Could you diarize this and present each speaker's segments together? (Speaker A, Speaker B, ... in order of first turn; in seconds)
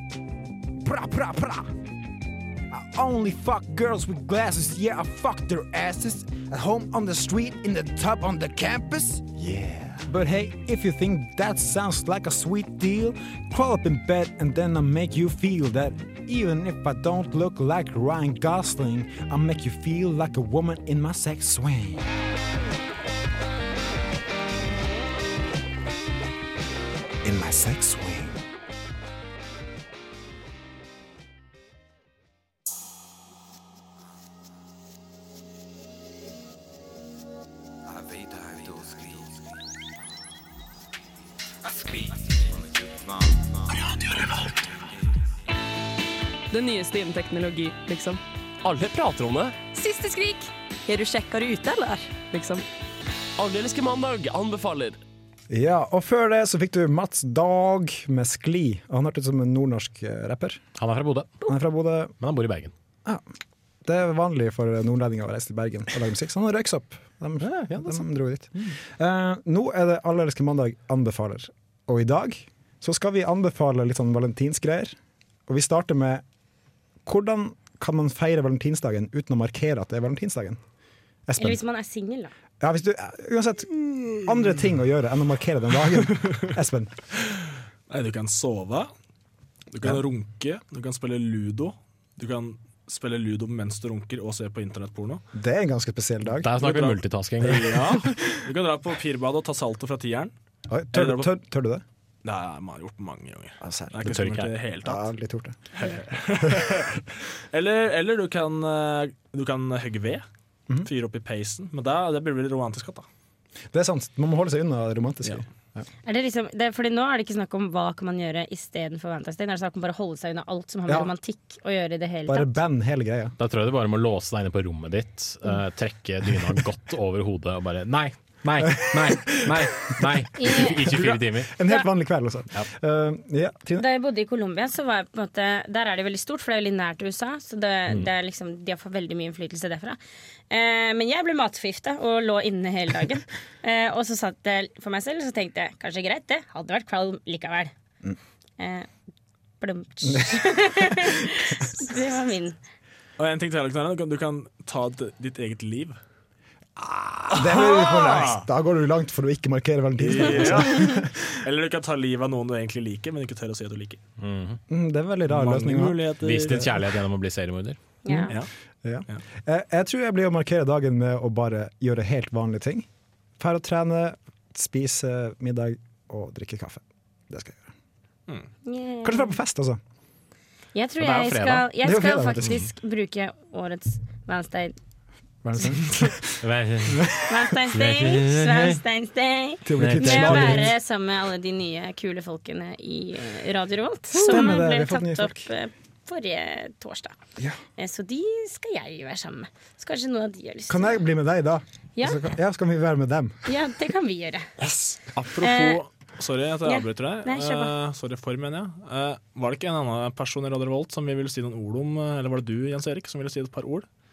Speaker A: 0.8-1.8, 2.7-22.1, 27.2-28.4, 55.5-60.6, 61.5-62.1, 63.8-75.0, 75.5-76.2, 77.0-80.6, 81.3-81.6, 82.6-87.0, 95.3-96.5, 100.7-101.8, 103.6-104.1, 104.8-105.7, 106.5-106.8, 113.7-115.8, 122.3-123.3, 128.6-133.9, 150.0-151.5, 156.8-161.4, 164.7-166.8, 168.1-172.9, 173.4-177.7, 179.0-179.8, 181.8-182.7, 185.4-186.4, 186.9-187.2, 189.6-190.7, 194.1-195.5, 200.7-203.5, 204.6-205.0
Speaker B: 46.5-48.2, 49.8-52.6
Speaker C: 48.6-49.6, 53.4-55.0
Speaker D: 60.8-61.5, 62.2-62.7, 67.4-68.0, 96.4-98.0, 104.0-104.5, 123.4-131.5, 164.2-164.6, 166.2-167.8, 181.0-181.7, 186.4-188.8, 189.8-190.7
Speaker E: 81.4-82.3, 116.0-122.5, 130.4-130.7, 133.8-140.0, 140.5-147.7, 148.6-148.9, 149.6-152.6, 160.7-161.0, 168.0-168.3, 178.6-179.3, 180.8-184.8, 187.2-197.1, 197.8-201.0, 201.9-202.2, 203.4-204.5, 205.4-205.8, 206.6-207.7
Speaker F: 86.1-86.5, 87.9-88.9, 89.7-95.2, 96.5-100.3, 100.9-101.3, 102.2-105.1, 105.7-110.2, 110.8-113.0, 153.2-156.0, 157.3-158.4, 160.0-164.0, 165.3-166.8, 205.1-213.9